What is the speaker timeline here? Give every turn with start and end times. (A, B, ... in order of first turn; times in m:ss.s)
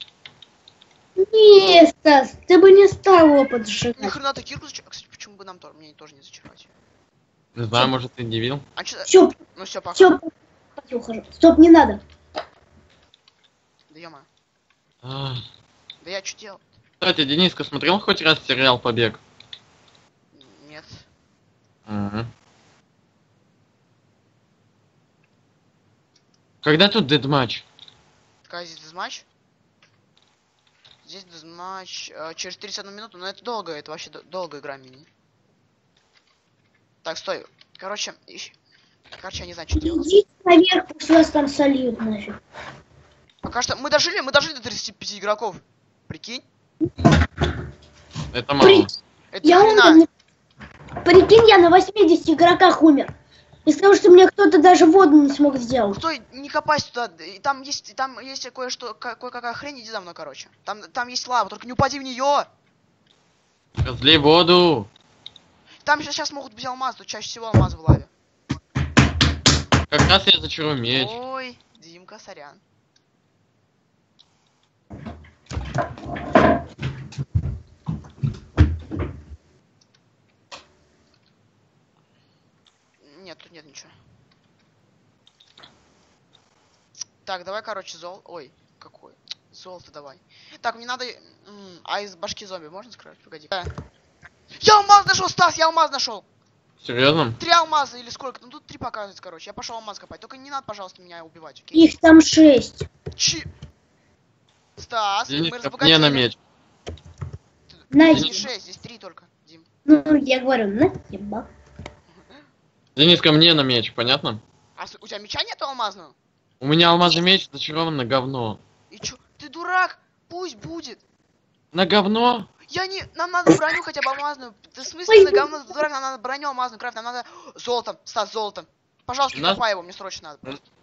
0:01.2-0:04.1 A
0:04.0-0:06.7 B
0:07.6-0:08.6 C
0:08.8-0:10.2 B
0:09.1-0:09.4 A
0:09.9-0:12.0 A
0:13.9-0:14.2 B
0:15.0-0:15.4 C
0:16.0-0:16.7 B
0:17.0-0:19.2 C
0:20.3-0:21.0 B
0:21.9-0:22.3 C
0:26.6-0:27.6 C
0:28.4-0:29.2 B
0:31.0-0:35.1 B
0:37.0-0:38.5 B
0:39.2-0:40.1 B
0:39.8-0:42.4 A
0:43.4-0:46.4 B
0:48.3-0:48.9 C
0:48.6-0:50.1 A
0:49.3-0:50.0 B
0:51.0-0:53.1 A
0:53.6-0:56.0 A
0:55.9-1:02.5 B
1:03.8-1:04.9 C
1:05.8-1:08.1 B
1:09.9-1:11.1 C
1:10.9-1:12.6 B
1:23.0-1:23.9 B
1:27.2-1:33.7 B
1:34.6-1:36.2 B
1:36.8-1:37.4 C
1:37.4-1:42.0 B
1:41.7-1:42.9 A
1:43.2-1:43.5 B
1:44.8-1:46.3 B
1:45.3-1:46.4 C
1:47.7-1:49.6 B
1:47.9-1:48.5 A
1:49.8-1:51.5 A
1:52.1-1:52.4 B
1:53.0-1:54.4 C
1:54.8-1:56.1 B
1:56.6-1:58.6 C
1:58.9-2:01.0 B
2:01.7-2:02.5 C
2:02.7-2:10.6 B
2:05.1-2:05.6 A
2:09.3-2:09.6 C